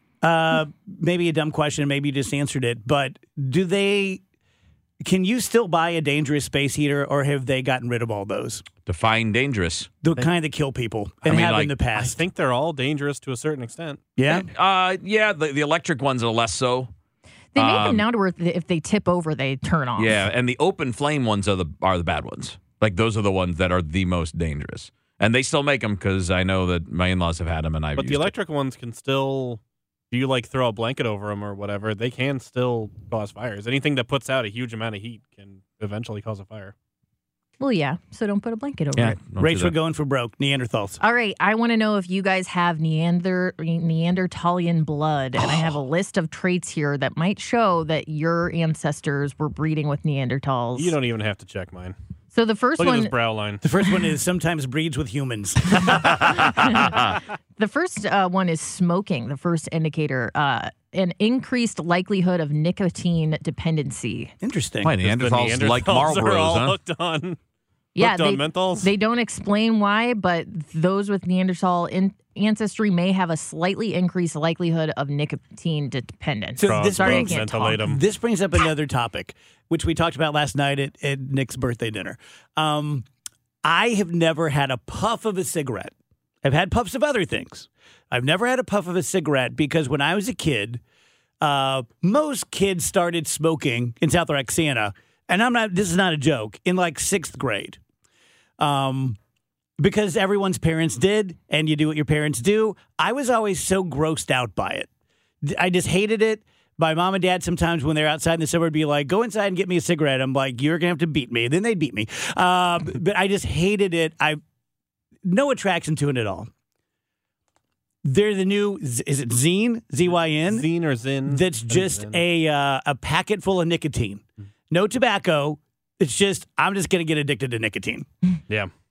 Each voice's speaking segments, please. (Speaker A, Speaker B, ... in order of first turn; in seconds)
Speaker A: 0.2-4.2, 5.0-8.6, 10.0-12.2, 14.2-14.5, 39.4-41.0, 53.6-56.1, 64.4-64.9, 76.6-83.0, 83.6-85.9, 86.4-90.8, 91.4-97.8, 98.6-99.2, 99.8-104.9, 105.4-114.4, 115.2-116.5, 118.0-120.7, 121.3-128.1
Speaker B: 8.8-9.9, 11.2-11.7, 14.3-16.9, 17.6-18.1, 20.0-28.3, 38.9-39.7, 45.4-45.7, 55.9-57.1, 64.8-66.8
Speaker C: 11.9-14.0, 28.0-29.6, 30.1-36.7, 50.8-51.9, 52.8-53.6, 65.0-67.4, 68.0-68.9, 76.6-78.0, 120.1-122.2
Speaker D: 17.5-20.2, 37.6-39.2, 41.0-50.9, 52.3-53.1, 56.3-64.3, 68.0-77.8